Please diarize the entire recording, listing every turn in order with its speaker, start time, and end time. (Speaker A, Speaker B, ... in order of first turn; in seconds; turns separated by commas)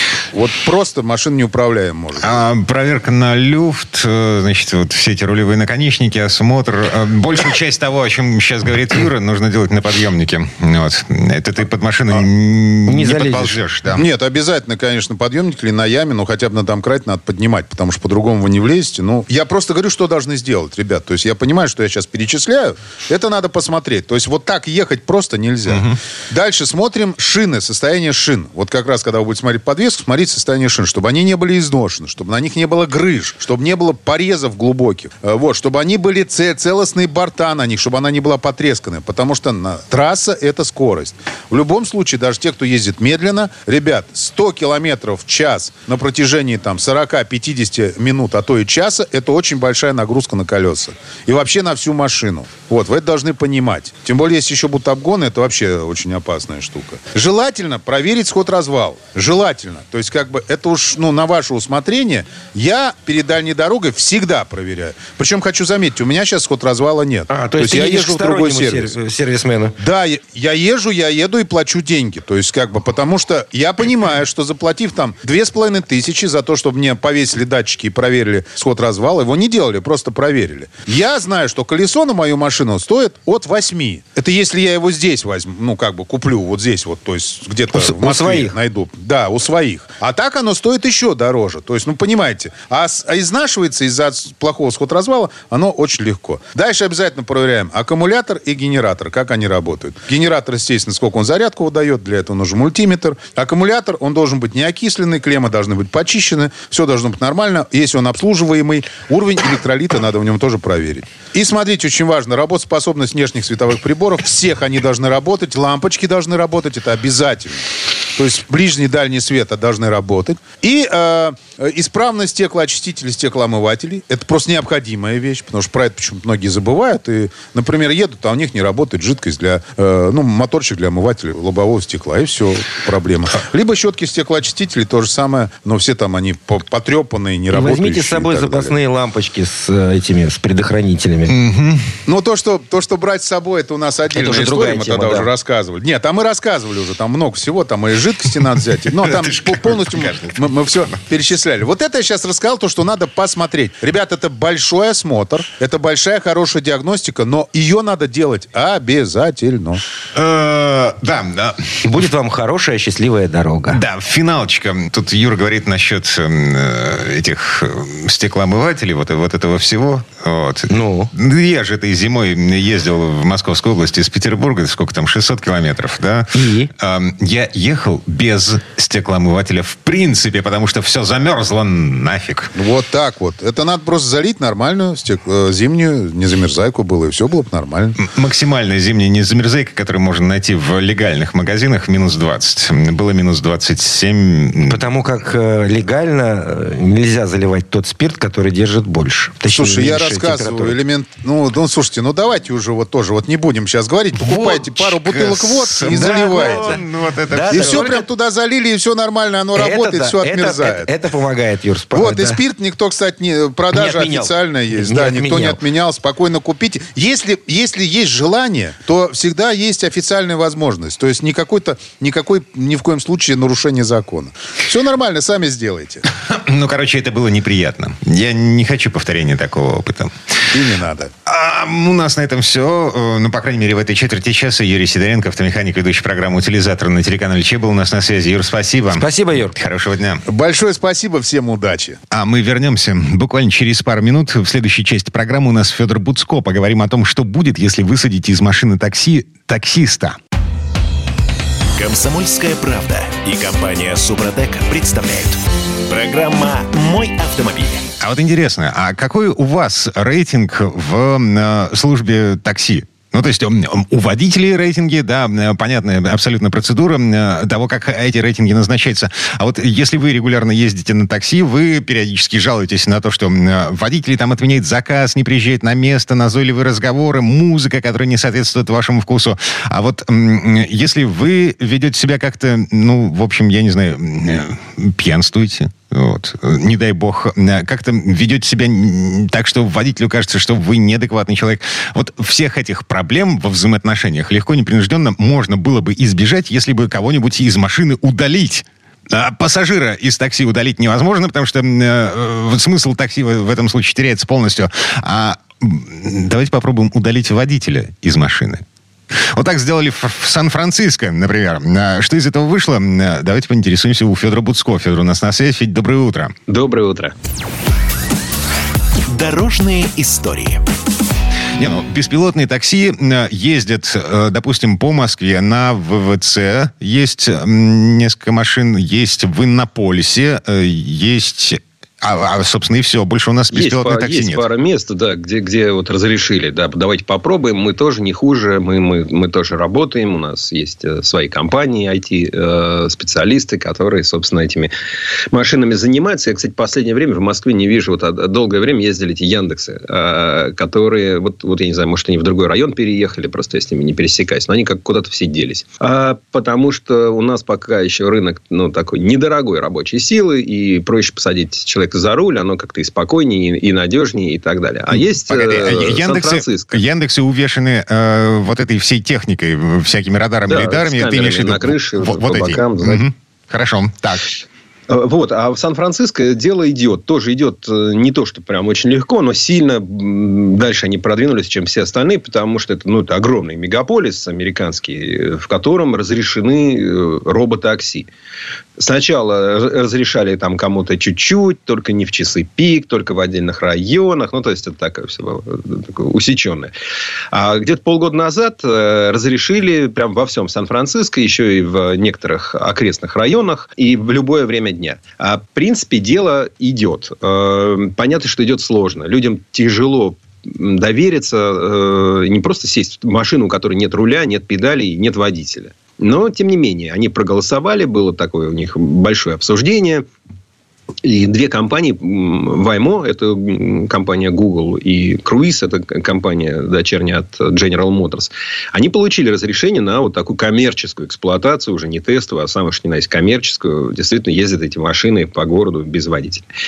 Speaker A: 0.3-2.4, Speaker B: 2.2-14.1, Speaker C: 12.9-13.6, Speaker A: 13.9-69.0, Speaker B: 25.7-26.0, Speaker C: 67.3-69.7, Speaker A: 69.8-138.8, Speaker C: 87.7-88.5, Speaker C: 137.5-141.4, Speaker B: 141.3-141.9, Speaker A: 142.1-159.8, Speaker C: 144.1-145.3, Speaker B: 149.1-150.9, Speaker B: 160.1-161.8, Speaker C: 161.8-163.8, Speaker B: 163.7-182.5, Speaker C: 170.7-171.1, Speaker C: 176.3-176.7, Speaker A: 182.5-188.0, Speaker B: 188.0-194.9, Speaker C: 194.7-200.7, Speaker A: 199.5-206.8, Speaker B: 204.2-208.0, Speaker C: 205.8-208.0, Speaker A: 207.5-210.9, Speaker C: 209.5-212.4, Speaker A: 211.9-226.0, Speaker C: 213.7-215.6, Speaker B: 226.1-230.1, Speaker A: 230.5-231.1, Speaker B: 231.2-240.2, Speaker C: 238.9-239.6, Speaker A: 240.2-242.0, Speaker B: 242.1-250.2, Speaker D: 251.8-257.9, Speaker B: 258.0-308.6, Speaker B: 309.3-316.4, Speaker E: 316.5-317.1, Speaker D: 319.1-320.6, Speaker B: 321.6-334.4, Speaker E: 333.5-344.7, Speaker E: 345.3-366.8, Speaker B: 364.9-374.4, Speaker E: 370.4-373.0, Speaker E: 374.9-388.1, Speaker E: 388.8-396.7, Speaker E: 397.3-420.1, Speaker E: 421.0-436.4